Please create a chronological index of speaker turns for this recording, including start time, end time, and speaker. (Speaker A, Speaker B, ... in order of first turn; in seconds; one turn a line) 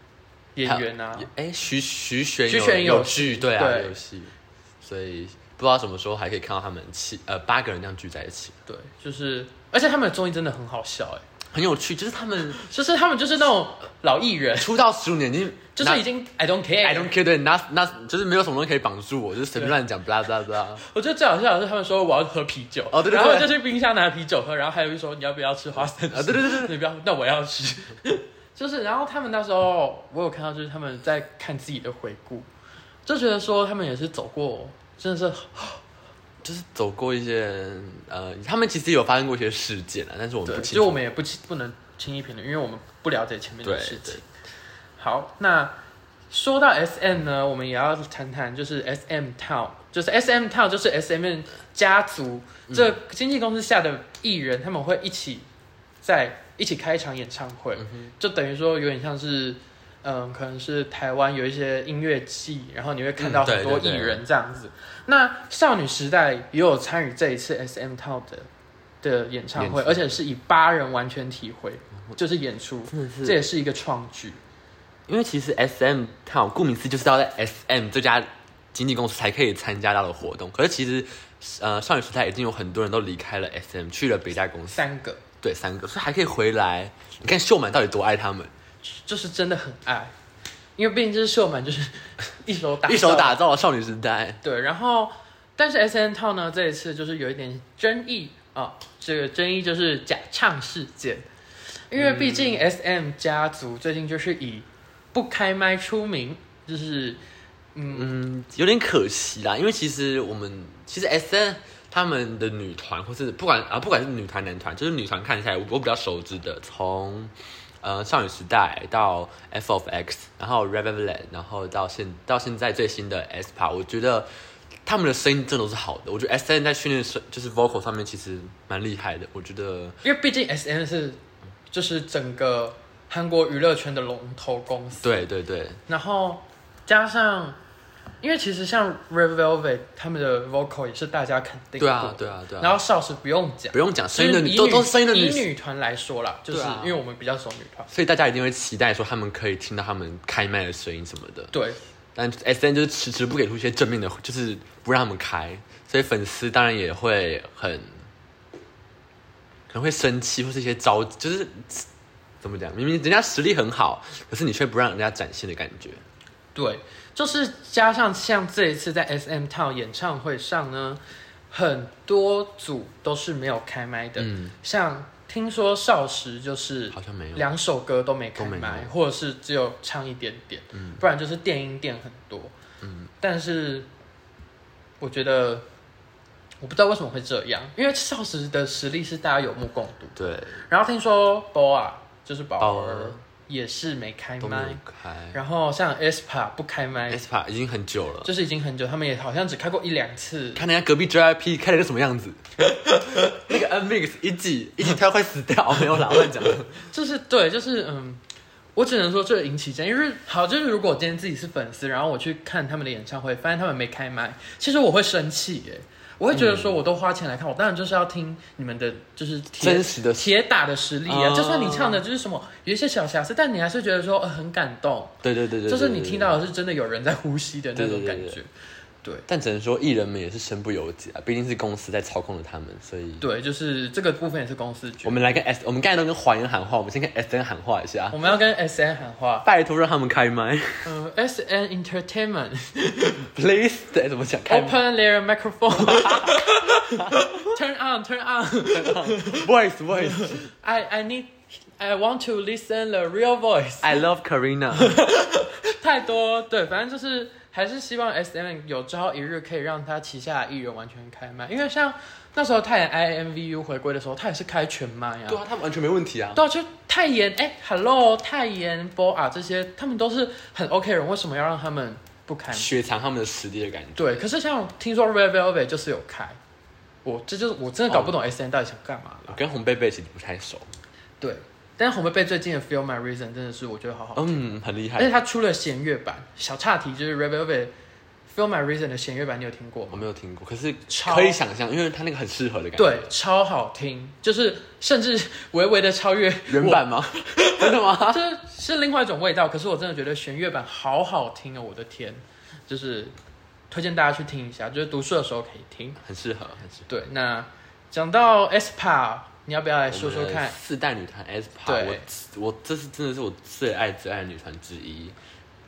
Speaker A: 0.6-1.3
Speaker B: 0.7-8.6
Speaker A: 2.5-3.9
Speaker A: 8.7-11.2
Speaker B: 11.5-12.6
Speaker A: 12.6-14.7
Speaker B: 14.6-16.0
Speaker A: 15.8-17.2
Speaker B: 16.8-20.8
Speaker A: 20.8-32.5
Speaker B: 22.9-23.6
Speaker B: 26.1-26.7
Speaker A: 33.1-35.8
Speaker B: 36.4-41.0
Speaker A: 40.5-44.2
Speaker B: 43.6-44.2
Speaker A: 45.0-45.8
Speaker A: 46.3-55.5
Speaker B: 52.7-53.0
Speaker A: 56.0-68.5
Speaker B: 57.8-58.1
Speaker B: 63.2-64.2
Speaker A: 69.0-74.4
Speaker B: 69.6-70.1
Speaker B: 72.9-73.4
Speaker B: 75.1-84.8
Speaker A: 84.7-85.2
Speaker B: 85.4-88.5
Speaker A: 88.8-90.1
Speaker A: 90.8-93.4
Speaker B: 92.8-94.4
Speaker A: 94.4-101.3
Speaker A: 101.9-107.2
Speaker B: 102.0-102.7
Speaker A: 107.8-108.2
Speaker B: 107.9-124.3
Speaker B: 124.9-130.0
Speaker A: 130.0-131.2
Speaker A: 131.7-135.2
Speaker B: 135.0-135.8
Speaker A: 135.9-137.6
Speaker A: 138.2-147.9
Speaker B: 141.8-142.8
Speaker B: 143.7-145.5
Speaker B: 146.5-147.0
Speaker B: 147.9-151.5
Speaker A: 151.5-151.8
Speaker B: 152.2-158.0
Speaker B: 159.7-161.9
Speaker B: 162.4-166.0
Speaker A: 166.6-182.5
Speaker B: 174.2-174.6
Speaker B: 176.9-177.4
Speaker B: 178.4-178.9
Speaker B: 180.7-181.0
Speaker B: 182.8-183.1
Speaker A: 183.2-183.9
Speaker A: 185.0-185.7
Speaker A: 186.6-194.8
Speaker B: 190.2-190.6
Speaker B: 192.6-193.2
Speaker B: 194.4-195.4
Speaker A: 195.3-197.2
Speaker B: 197.1-198.3
Speaker A: 198.2-200.6
Speaker B: 200.6-202.5
Speaker A: 202.7-203.4
Speaker B: 203.1-206.8
Speaker A: 206.9-208.2
Speaker A: 208.8-228.5
Speaker B: 216.3-216.8
Speaker B: 219.6-220.3
Speaker B: 221.1-222.0
Speaker B: 225.2-226.4
Speaker B: 227.8-228.4
Speaker B: 229.3-233.2
Speaker A: 233.2-235.2
Speaker B: 235.0-238.2
Speaker A: 238.1-239.5
Speaker B: 239.4-240.9
Speaker A: 240.8-243.3
Speaker B: 243.3-244.8
Speaker A: 244.5-249.5
Speaker B: 245.7-247.5
Speaker B: 248.7-250.4
Speaker A: 250.1-254.0
Speaker B: 253.8-255.0
Speaker A: 254.7-265.4
Speaker B: 265.3-266.4
Speaker A: 266.4-272.7
Speaker B: 272.5-274.2
Speaker A: 274.0-276.4
Speaker A: 277.1-279.4
Speaker B: 277.9-278.1
Speaker B: 279.3-280.7
Speaker A: 281.2-287.7
Speaker B: 284.2-285.1
Speaker A: 288.3-290.1
Speaker B: 289.9-293.1
Speaker A: 290.9-291.4
Speaker A: 292.8-303.1
Speaker B: 296.5-298.2
Speaker A: 303.7-306.0
Speaker B: 306.0-306.9
Speaker A: 306.9-310.6
Speaker B: 309.9-315.2
Speaker A: 311.7-312.1